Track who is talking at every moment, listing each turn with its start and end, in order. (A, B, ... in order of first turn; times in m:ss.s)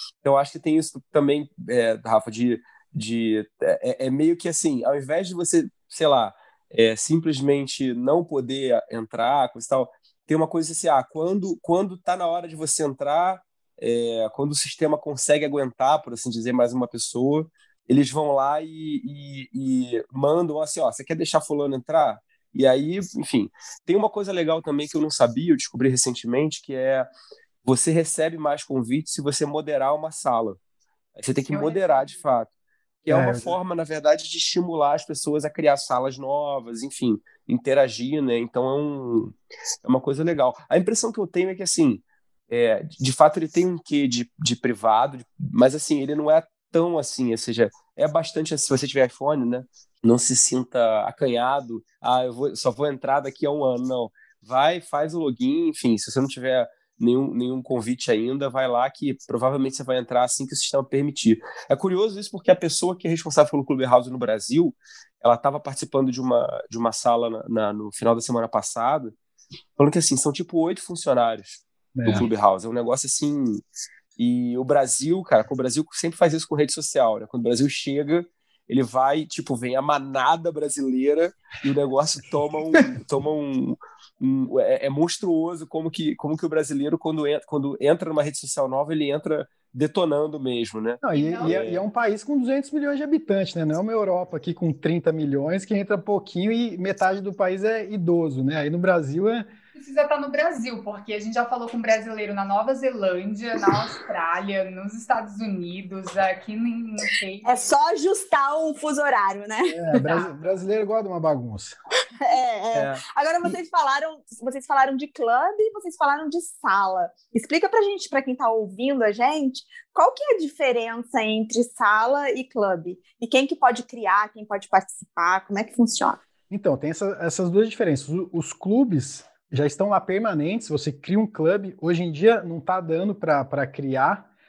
0:00.2-0:27.1 A
0:27.6-0:30.6 A
0:31.2-0:32.5 A
0:31.5-0:32.2 B
0:33.0-1:09.1 A
0:33.1-0:33.6 C
1:09.8-1:13.6 A
1:11.9-1:12.3 C
1:14.2-1:31.8 A
1:31.0-1:39.5 C
1:31.1-1:31.6 B
1:39.8-1:47.7 B
1:47.4-1:50.2 D
1:49.7-1:51.8 C
1:52.2-2:06.2 D
2:06.5-2:14.3 C